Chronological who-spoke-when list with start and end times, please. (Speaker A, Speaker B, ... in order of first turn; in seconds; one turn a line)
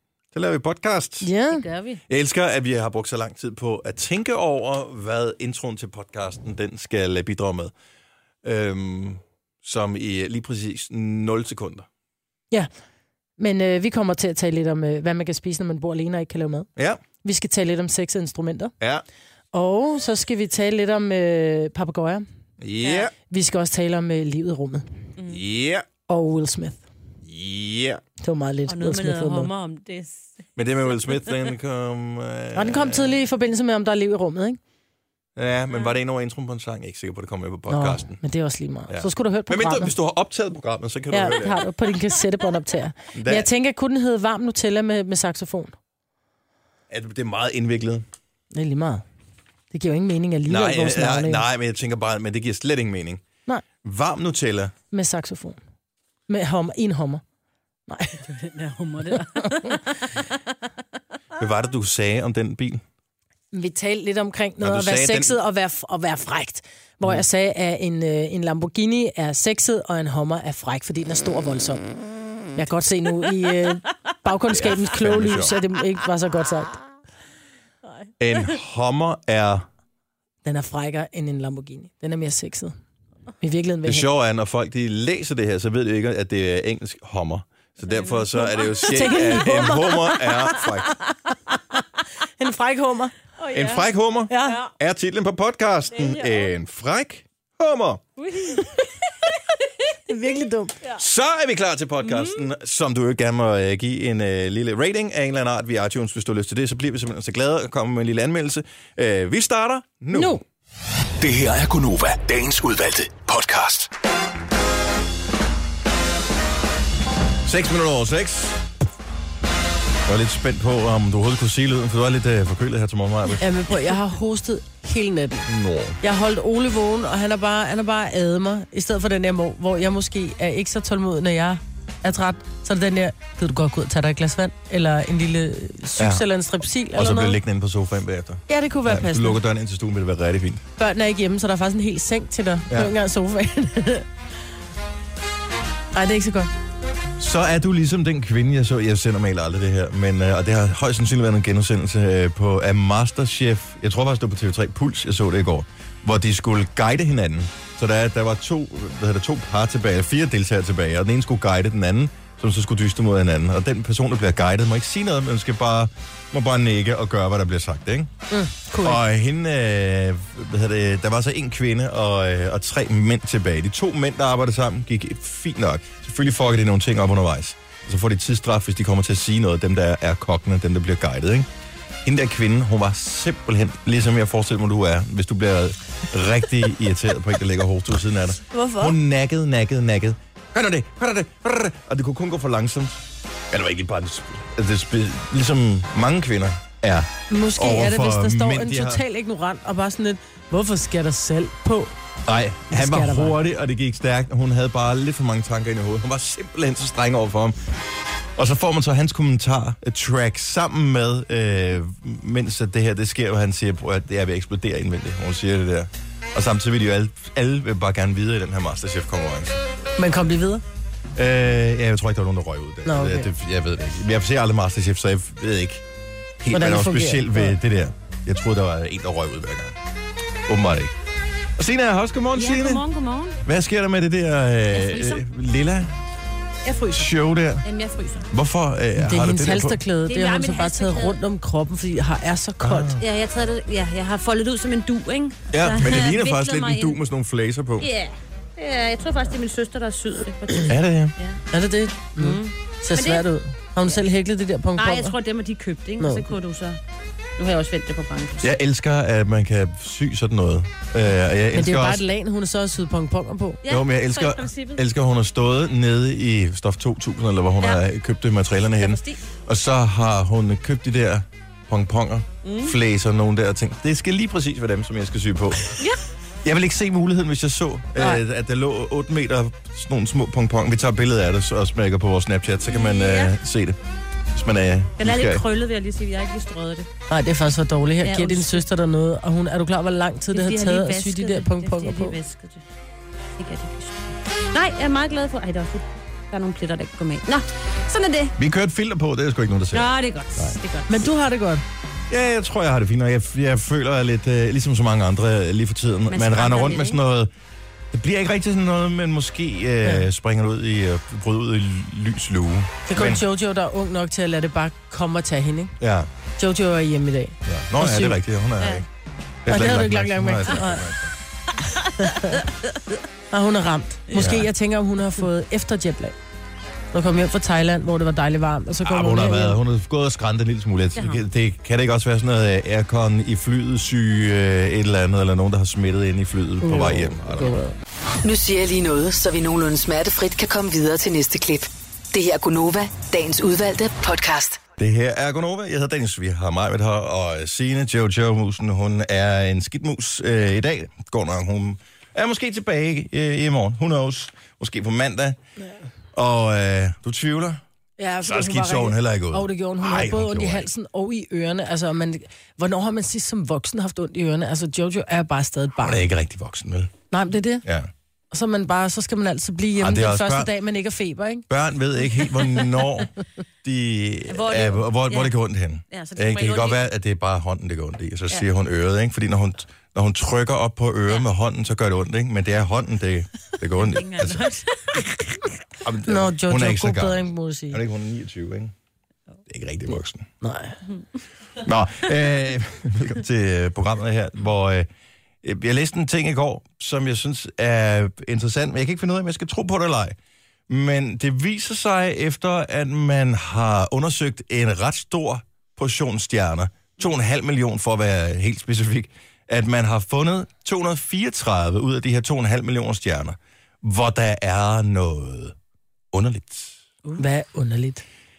Speaker A: 0.3-1.3
Speaker B: 1.2-1.6
Speaker C: 1.5-2.0
Speaker A: 2.1-7.7
Speaker A: 8.4-11.9
Speaker B: 13.4-16.7
Speaker A: 16.8-17.0
Speaker B: 17.2-18.7
Speaker A: 18.8-19.1
Speaker B: 19.5-22.2
Speaker A: 22.6-23.1
Speaker C: 22.8-23.1
Speaker B: 23.3-24.9
Speaker A: 25.3-25.9
Speaker B: 26.1-26.8
Speaker A: 27.2-28.0
Speaker B: 28.2-29.5
Speaker C: 28.7-30.4
Speaker A: 30.6-33.2
Speaker C: 31.1-31.5
Speaker B: 32.5-34.6
Speaker A: 35.4-38.2
Speaker B: 37.7-39.9
Speaker A: 38.9-41.6
Speaker B: 41.1-45.7
Speaker A: 43.1-43.5
Speaker A: 46.9-48.0
Speaker B: 48.5-49.0
Speaker B: 49.7-51.5
Speaker A: 50.5-53.2
Speaker A: 53.8-54.7
Speaker B: 54.9-55.6
Speaker B: 56.3-57.2
Speaker B: 57.9-58.4
Speaker C: 58.3-60.2
Speaker B: 59.1-59.8
Speaker A: 61.4-62.8
Speaker B: 63.5-71.8
Speaker A: 64.6-65.4
Speaker B: 72.5-76.8
Speaker A: 74.5-75.5
Speaker A: 78.2-79.7
Speaker B: 80.4-82.8
Speaker B: 83.4-84.1
Speaker A: 83.8-91.0
Speaker C: 87.8-89.7
Speaker B: 88.8-90.6
Speaker B: 92.4-93.2
Speaker C: 93.4-93.9
Speaker A: 93.5-98.0
Speaker B: 94.3-94.6
Speaker C: 94.4-94.7
Speaker C: 95.9-96.5
Speaker C: 98.2-99.5
Speaker B: 100.1-100.8
Speaker A: 101.0-110.4
Speaker C: 102.0-102.4
Speaker B: 110.1-110.4
Speaker D: 111.2-113.9
Speaker A: 117.5-118.6
Speaker A: 120.1-123.4
Speaker B: 123.4-125.5
Speaker A: 125.5-126.0
Speaker B: 126.0-137.4
Speaker A: 136.0-136.2
Speaker A: 136.9-140.7
Speaker B: 138.5-139.4
Speaker B: 140.8-144.1
Speaker B: 145.9-146.5
Speaker A: 147.2-168.1
Speaker B: 168.3-169.0
Speaker A: 168.8-181.5
Speaker A: 182.1-199.0
Speaker B: 188.5-188.9
Speaker B: 197.3-201.9
Speaker A: 202.3-207.6
Speaker B: 202.7-203.4
Speaker A: 208.4-219.6
Speaker B: 220.0-220.6
Speaker A: 221.2-225.8
Speaker B: 222.9-223.3
Speaker A: 226.4-229.8
Speaker B: 226.5-227.6
Speaker A: 230.5-230.9
Speaker A: 231.6-232.8
Speaker C: 232.3-233.4
Speaker A: 233.4-235.9
Speaker C: 234.7-235.2
Speaker C: 236.7-237.1
Speaker A: 236.9-237.7
Speaker C: 237.6-238.3
Speaker A: 238.3-239.8
Speaker B: 239.0-242.9
Speaker C: 240.1-241.2
Speaker A: 242.6-243.0
Speaker C: 243.0-247.0
Speaker A: 245.5-247.9
Speaker C: 247.8-251.4
Speaker A: 250.6-251.2
Speaker B: 251.5-255.2
Speaker C: 252.2-253.2
Speaker C: 254.8-256.8
Speaker B: 256.0-256.3
Speaker C: 257.4-258.5
Speaker A: 258.4-262.0
Speaker B: 261.5-263.6
Speaker C: 263.6-264.8
Speaker A: 263.7-275.8
Speaker C: 268.8-269.2
Speaker C: 272.4-272.8
Speaker A: 276.4-283.8
Speaker C: 282.7-283.3
Speaker A: 284.3-285.4
Speaker C: 285.0-286.9
Speaker B: 287.1-292.2
Speaker C: 288.0-288.6
Speaker C: 290.3-292.6
Speaker C: 293.4-294.0
Speaker C: 294.5-298.4
Speaker A: 298.4-299.9
Speaker C: 299.7-301.1
Speaker B: 300.4-301.6
Speaker A: 302.1-307.3
Speaker C: 306.1-307.0
Speaker A: 307.9-313.2
Speaker B: 312.9-315.7
Speaker A: 315.8-316.1
Speaker B: 316.4-318.2
Speaker A: 317.5-318.9
Speaker C: 318.6-318.9
Speaker A: 319.4-321.1
Speaker B: 319.5-320.9
Speaker C: 321.7-322.5
Speaker B: 321.9-322.4
Speaker B: 323.3-326.1
Speaker A: 324.2-324.5
Speaker B: 326.9-329.6
Speaker A: 328.9-337.6
Speaker C: 331.0-331.2
Speaker B: 336.6-337.8
Speaker E: 338.2-344.6
Speaker A: 344.8-355.4
Speaker A: 356.1-357.6
Speaker B: 358.0-366.1
Speaker A: 358.2-360.7
Speaker A: 365.8-366.9
Speaker B: 367.1-367.6
Speaker A: 367.6-367.9
Speaker B: 368.3-371.4
Speaker A: 369.8-370.5
Speaker A: 371.5-373.1
Speaker C: 372.3-372.6
Speaker A: 373.6-384.5
Speaker C: 374.3-375.4
Speaker C: 375.9-376.8
Speaker C: 383.8-385.4
Speaker A: 385.8-388.7
Speaker B: 386.1-387.8
Speaker A: 389.5-390.3
Speaker B: 390.4-390.8
Speaker A: 391.6-394.9
Speaker A: 395.4-400.2
Speaker A: 400.7-415.6
Speaker A: 416.1-416.8
Speaker B: 417.2-418.0